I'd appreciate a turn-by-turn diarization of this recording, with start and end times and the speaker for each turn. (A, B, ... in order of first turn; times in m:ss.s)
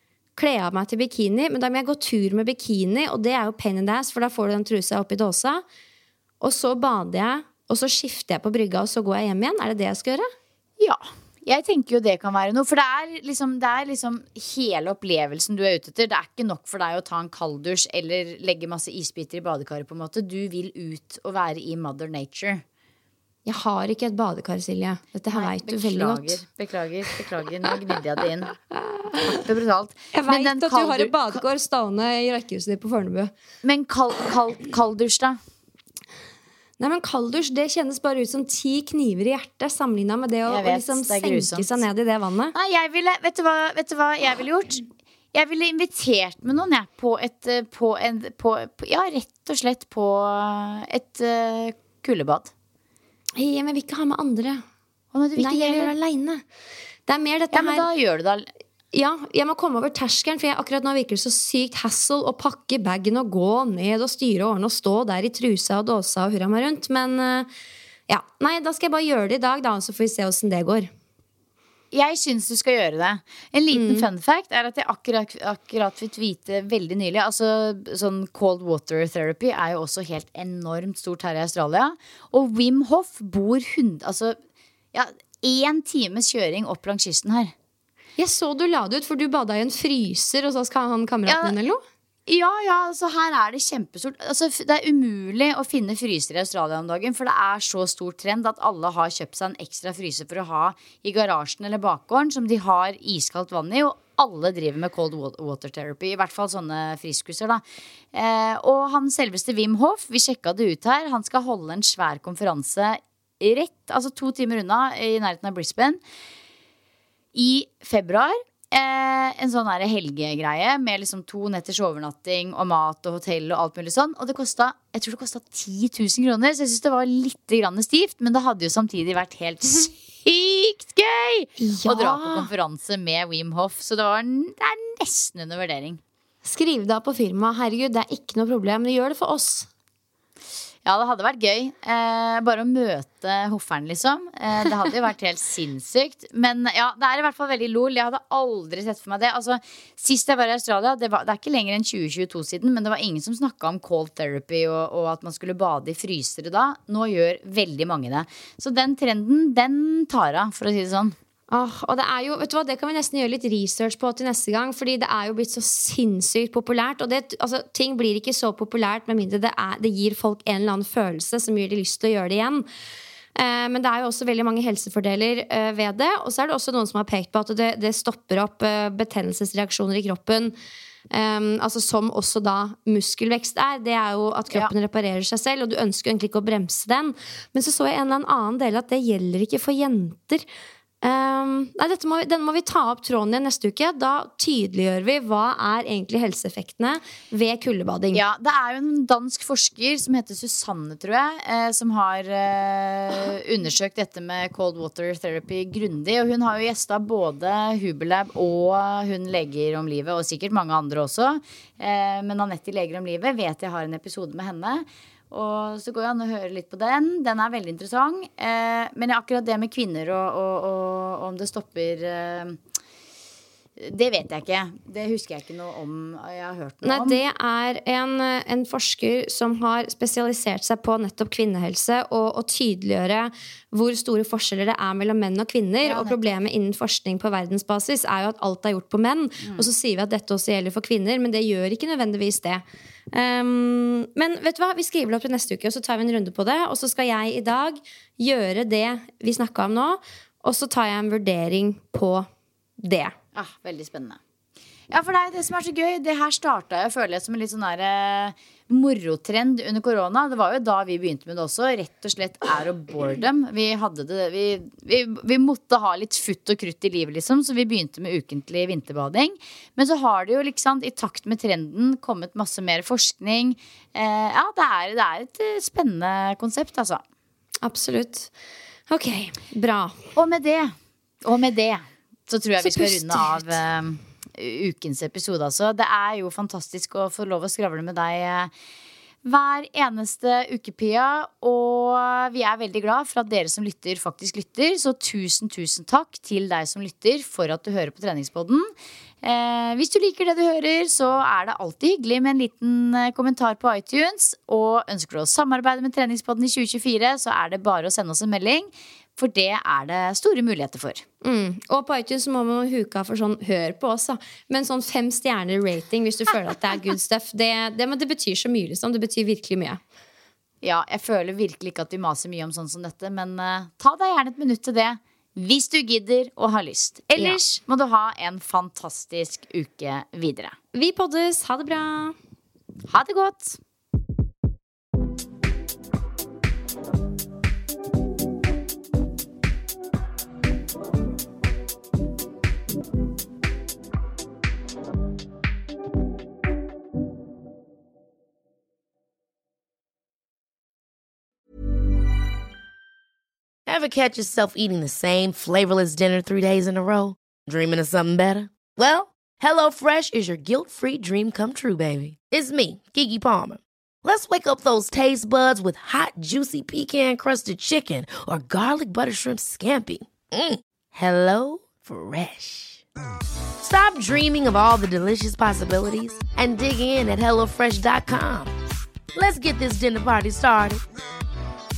0:00.4-0:05.6 A
0:06.4-0:10.3 A
0:10.8-0:22.6 B
0:23.5-0:26.4 A
0:25.3-0:28.5 B
0:28.7-0:29.4 A
0:29.2-0:31.4 B
0:30.1-0:33.3 A
0:33.6-0:35.4 B
0:36.8-0:42.5 A
0:40.5-0:41.8 B
0:42.5-0:52.5 B
0:53.4-0:54.6 A
0:55.1-0:55.9 B
0:55.4-0:56.4 A
0:57.1-0:57.9 A
0:57.5-0:58.5 B
0:58.9-1:07.5 A
1:08.1-1:10.9 A
1:11.9-1:24.4 B
1:13.7-1:14.1 A
1:24.9-1:27.5 B
1:28.2-1:31.8 A
1:31.3-1:31.6 B
1:32.3-1:47.6 B
1:48.1-1:56.0 B
1:57.3-2:16.0 B
2:11.6-2:12.5 A
2:16.4-2:19.7 A
2:20.9-2:41.2 B
2:41.5-2:52.7 A
2:53.4-3:00.5 A
3:01.1-3:10.4 A
3:11.0-3:18.2 A
3:18.1-3:42.6 B
3:43.8-3:47.2 B
3:46.8-4:12.3 A
3:55.8-3:56.2 B
3:59.4-3:59.7 B
4:12.8-4:13.1 A
4:13.4-4:14.2 B
4:14.9-4:37.0 B
4:37.6-4:38.3 A
4:38.9-4:40.0 A
4:40.2-4:40.7 B
4:41.2-4:48.5 B
4:42.6-4:43.5 A
4:49.2-4:58.7 B
4:59.2-5:11.0 B
5:11.2-5:19.8 A
5:20.6-5:30.6 B
5:30.8-5:32.2 A
5:32.9-5:33.6 B
5:53.7-6:12.8 C
6:13.6-6:18.5 C
6:19.2-6:20.8 C